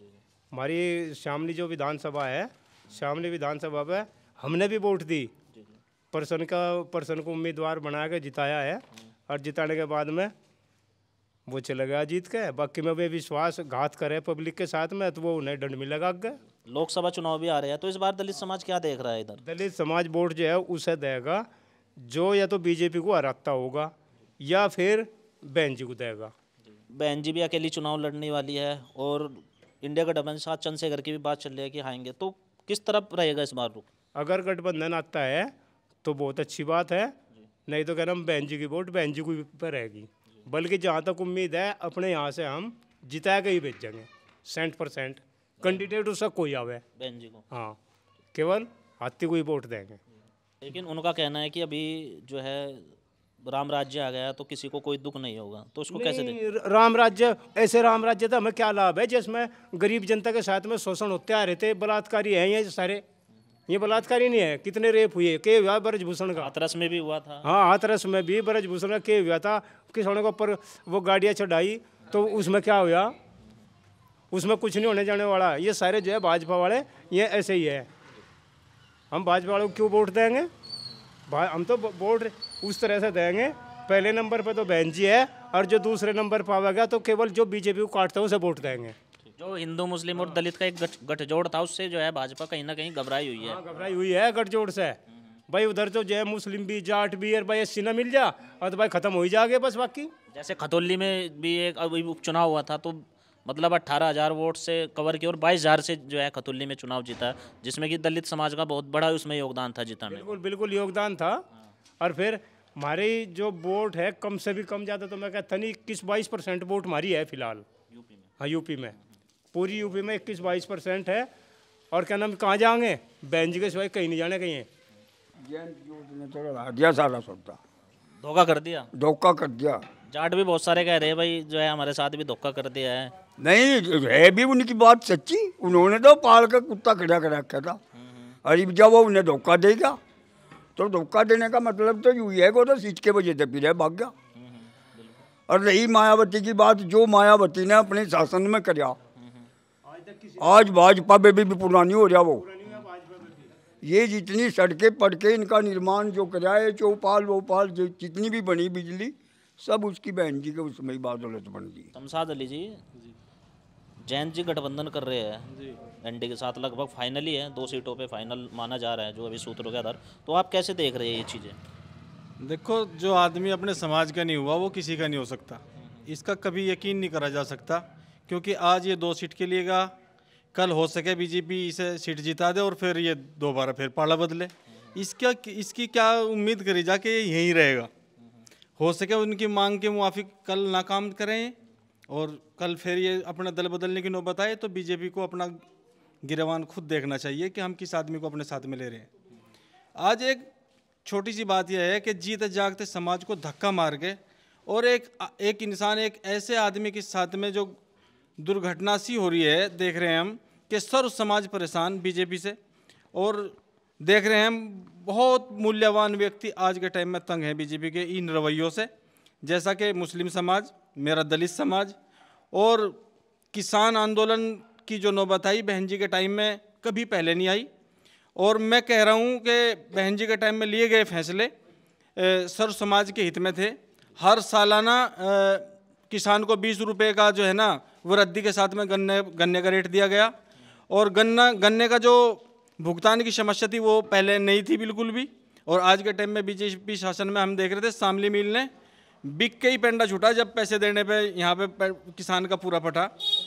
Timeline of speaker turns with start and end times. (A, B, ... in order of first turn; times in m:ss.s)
0:00.5-0:05.3 A
0:06.1-0:10.3 A
0:11.5-0:16.4 A
0:16.7-0:19.4 B
0:19.4-0:21.4 A
0:22.1-0:26.3 A
0:26.9-0:33.8 B
0:34.1-0:35.5 A
0:36.0-0:37.1 A
0:37.7-0:46.8 A
0:47.0-0:47.4 B
0:47.5-0:47.8 A
0:48.3-0:50.0 A
0:50.6-0:56.4 B
0:55.9-1:03.0 A
1:03.7-1:06.5 A
1:06.3-1:07.5 B
1:07.4-1:13.1 A
1:14.3-1:17.9 A
1:19.1-1:20.5 A
1:21.3-1:29.0 A
1:29.3-1:33.6 B
1:33.4-1:35.0 A
1:35.5-1:40.1 A
1:40.3-1:50.4 B
1:50.1-1:51.4 A
1:52.0-1:57.6 A
1:57.9-1:58.3 B
1:58.4-1:59.0 A
1:59.5-2:01.3 A
2:01.9-2:04.7 A
2:05.4-2:07.6 C
2:08.2-2:08.9 B
2:08.9-2:09.8 C
2:10.1-2:13.1 B
2:13.4-2:17.8 C
2:18.0-2:18.3 B
2:18.4-2:20.0 C
2:20.8-2:24.1 C
2:24.4-2:25.1 B
2:25.5-2:29.0 C
2:30.0-2:30.5 A
2:30.4-2:32.4 C
2:32.4-2:33.4 A
2:33.8-2:41.9 C
2:41.9-2:42.8 B
2:44.0-2:45.5 B
2:46.0-2:51.6 B
2:52.4-2:59.9 D
3:00.5-3:07.9 D
3:08.8-3:11.5 D
3:12.1-3:15.6 D
3:16.2-3:19.1 D
3:20.0-3:20.4 D
3:21.0-3:27.8 D
3:28.4-3:32.6 D
3:33.1-3:38.9 D
3:39.4-3:42.0 D
3:42.5-3:43.0 D
3:43.5-3:47.7 D
3:48.4-3:51.5 D
3:52.2-4:00.3 D
4:00.9-4:08.7 D
4:09.2-4:13.1 D